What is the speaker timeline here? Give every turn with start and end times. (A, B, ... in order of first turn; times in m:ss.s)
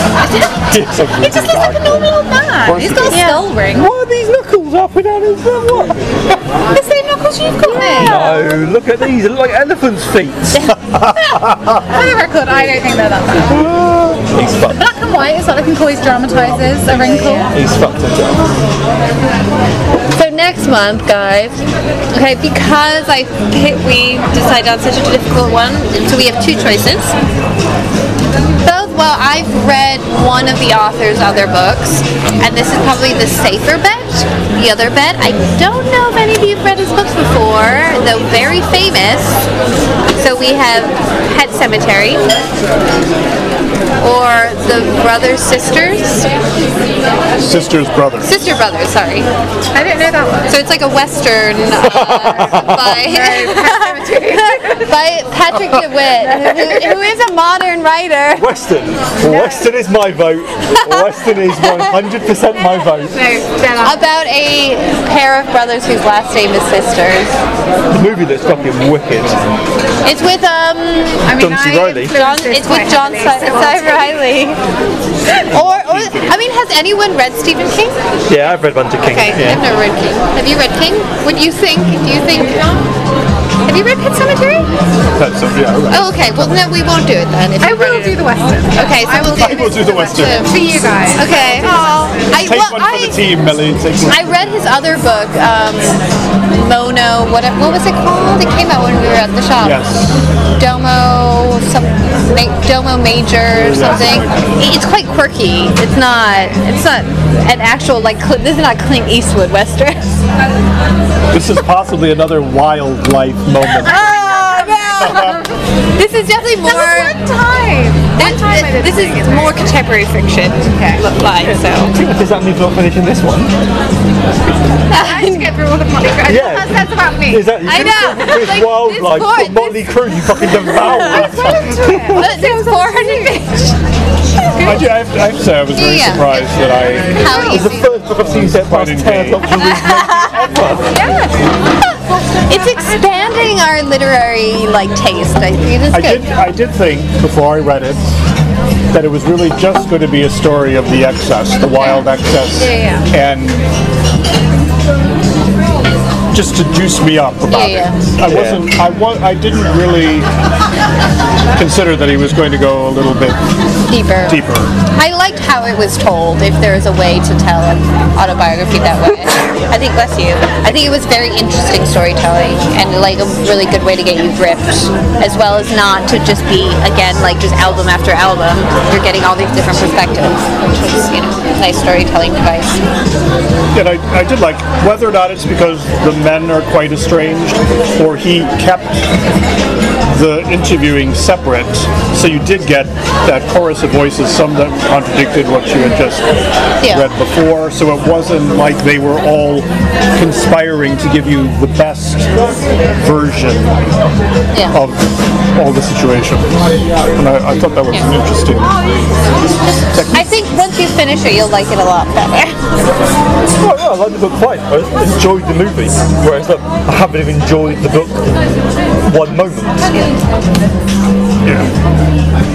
0:00.2-0:03.9 A
0:00.7-0:03.2 B
0:03.1-0:03.5 C
0:03.7-0:06.0 D
0:06.7-0:08.6 A
0:07.7-0:08.3 C
0:07.9-0:10.8 D
0:10.9-0:11.8 B
0:11.2-0:13.6 A
0:13.5-0:14.9 D
0:14.7-0:17.5 A
0:17.0-0:17.5 C
0:17.3-0:18.4 D
0:20.1-0:27.1 C
0:28.6-0:39.5 C
0:40.2-0:42.3 C
0:44.0-0:46.3 C
0:47.4-0:48.3 B
0:48.2-0:49.3 C
0:49.7-0:50.5 A
0:50.5-0:58.5 C
0:51.8-0:52.8 D
0:52.7-0:54.9 A
0:56.4-0:57.0 A
0:58.4-1:03.2 D
0:59.2-0:59.7 A
1:02.6-1:04.1 A
1:03.8-1:07.4 C
1:07.9-1:09.5 D
1:10.0-1:11.3 C
1:11.2-1:14.3 A
1:11.4-1:12.2 D
1:12.1-1:14.6 C
1:15.3-1:16.4 B
1:15.5-1:18.0 C
1:18.3-1:19.6 D
1:19.0-1:22.9 C
1:23.6-1:24.7 C
1:25.1-1:26.6 B
1:25.9-1:30.6 C
1:27.6-1:32.1 A
1:29.3-1:30.5 B
1:31.1-1:33.3 C
1:32.3-1:34.5 B
1:34.0-1:39.8 C
1:39.6-1:40.2 B
1:40.6-1:50.0 C
1:43.5-1:44.5 B
1:51.3-1:55.4 B
1:53.8-1:55.4 C
1:53.8-1:55.4 A
1:56.0-1:57.2 C
1:56.6-1:59.6 A
1:58.2-2:01.9 C
2:00.7-2:01.0 A
2:01.2-2:03.5 D
2:04.9-2:05.5 C
2:04.9-2:07.4 A
2:06.2-2:12.3 D
2:07.6-2:10.0 C
2:10.6-2:13.8 C
2:10.8-2:13.4 A
2:11.0-2:11.9 B
2:14.4-2:14.8 C
2:14.4-2:14.8 A
2:14.6-2:17.5 B
2:15.7-2:16.5 C
2:17.1-2:17.9 C
2:17.4-2:20.8 D
2:18.2-2:20.9 B
2:19.8-2:20.3 C
2:20.9-2:21.5 A
2:22.4-2:26.3 C
2:22.5-2:23.0 A
2:25.9-2:28.2 B
2:28.9-2:33.6 B
2:31.8-2:33.1 C
2:36.3-2:40.3 B
2:37.5-2:38.0 C
2:38.2-2:38.7 D
2:41.6-2:43.4 B
2:43.9-3:02.8 C
2:44.2-2:44.7 B
3:03.7-3:09.1 B
3:10.1-3:16.3 B
3:16.8-3:17.1 C
3:16.8-3:23.9 B
3:24.7-3:28.8 B
3:29.9-3:30.3 B
3:30.1-3:32.6 C
3:33.5-3:40.2 D
3:41.4-3:41.7 B